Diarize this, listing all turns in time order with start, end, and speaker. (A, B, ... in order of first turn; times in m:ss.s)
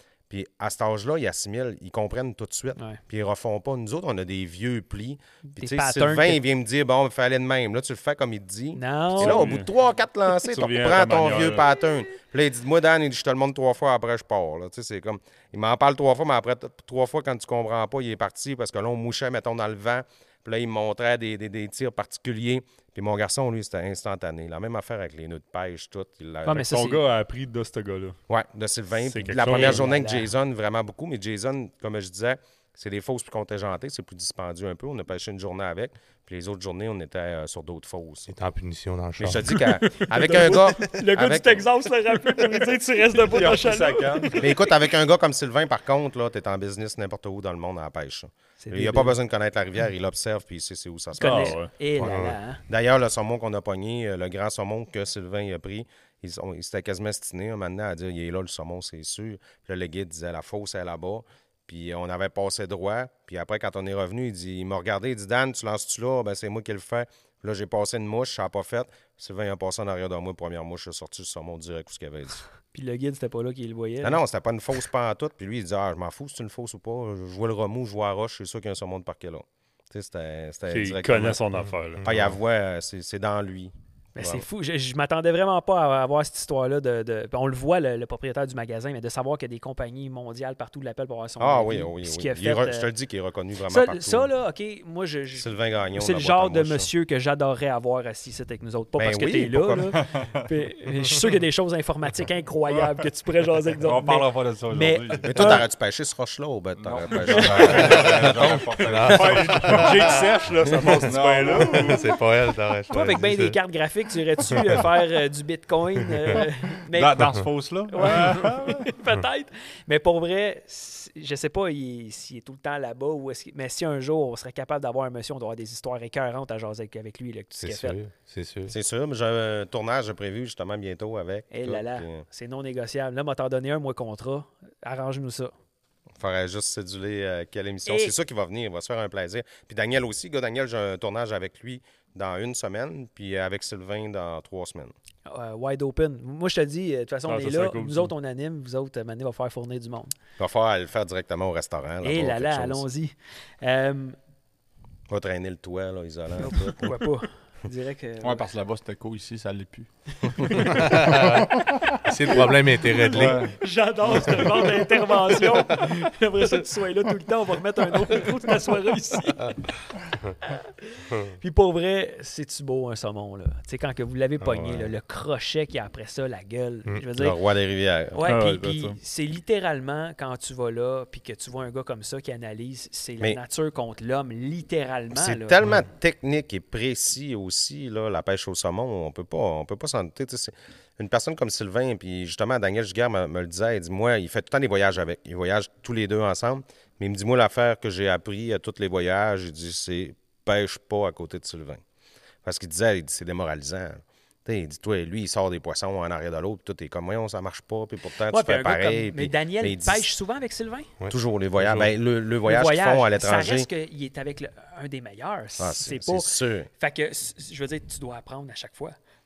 0:00.3-0:26.7 A
0:05.6-0:06.4 B
0:08.8-0:09.5 B
0:09.2-0:09.7 C
0:10.4-0:11.6 C
0:26.4-0:27.0 B
0:26.6-0:28.2 C
0:28.3-0:38.3 A
0:29.0-0:29.8 C
0:29.3-0:30.3 B
0:38.3-0:39.6 D
0:39.2-0:41.6 A
0:40.2-0:44.4 B
0:43.4-0:44.4 C
0:43.4-0:44.3 E
0:44.3-1:12.4 A
0:48.6-0:49.2 B
0:51.2-0:52.6 B
0:51.2-0:51.7 C
0:52.0-0:52.3 D
1:12.7-1:14.2 B
1:14.0-1:21.4 A
1:20.7-1:22.0 C
1:22.0-1:22.4 D
1:22.0-1:24.4 A
1:24.2-1:32.9 B
1:31.4-1:34.3 A
1:33.7-1:45.6 B
1:35.4-1:36.9 A
1:39.0-1:40.0 A
1:40.0-1:40.4 E
1:43.8-1:45.6 E
1:45.2-1:49.3 A
1:46.8-1:50.2 E
1:47.6-1:50.2 D
1:49.1-1:52.0 C
1:50.9-1:52.0 E
1:51.5-1:53.6 D
1:52.9-2:08.0 B
1:54.5-1:54.8 D
1:56.9-1:58.9 E
2:07.6-2:08.7 D
2:08.7-2:12.2 A
2:11.5-2:15.5 B
2:16.2-2:24.9 A
2:17.9-2:18.2 B
2:25.3-2:30.2 B
2:27.3-2:28.1 C
2:30.4-2:32.8 A
2:32.0-2:34.2 B
2:35.1-2:36.9 A
2:36.4-2:38.5 B
2:38.2-2:42.1 E
2:40.4-2:40.7 B
2:40.6-2:43.4 D
2:43.1-2:43.6 E
2:43.2-2:49.6 B
2:44.2-2:44.5 D
2:50.4-2:57.4 B
2:54.4-2:54.9 D
2:57.2-2:58.2 A
2:58.1-3:05.6 B
2:58.2-2:59.0 C
3:05.1-3:21.8 A
3:22.4-3:30.1 A
3:28.3-3:30.9 B
3:31.0-3:31.9 D
3:31.1-3:33.7 A
3:32.4-3:39.0 B
3:35.6-3:36.7 A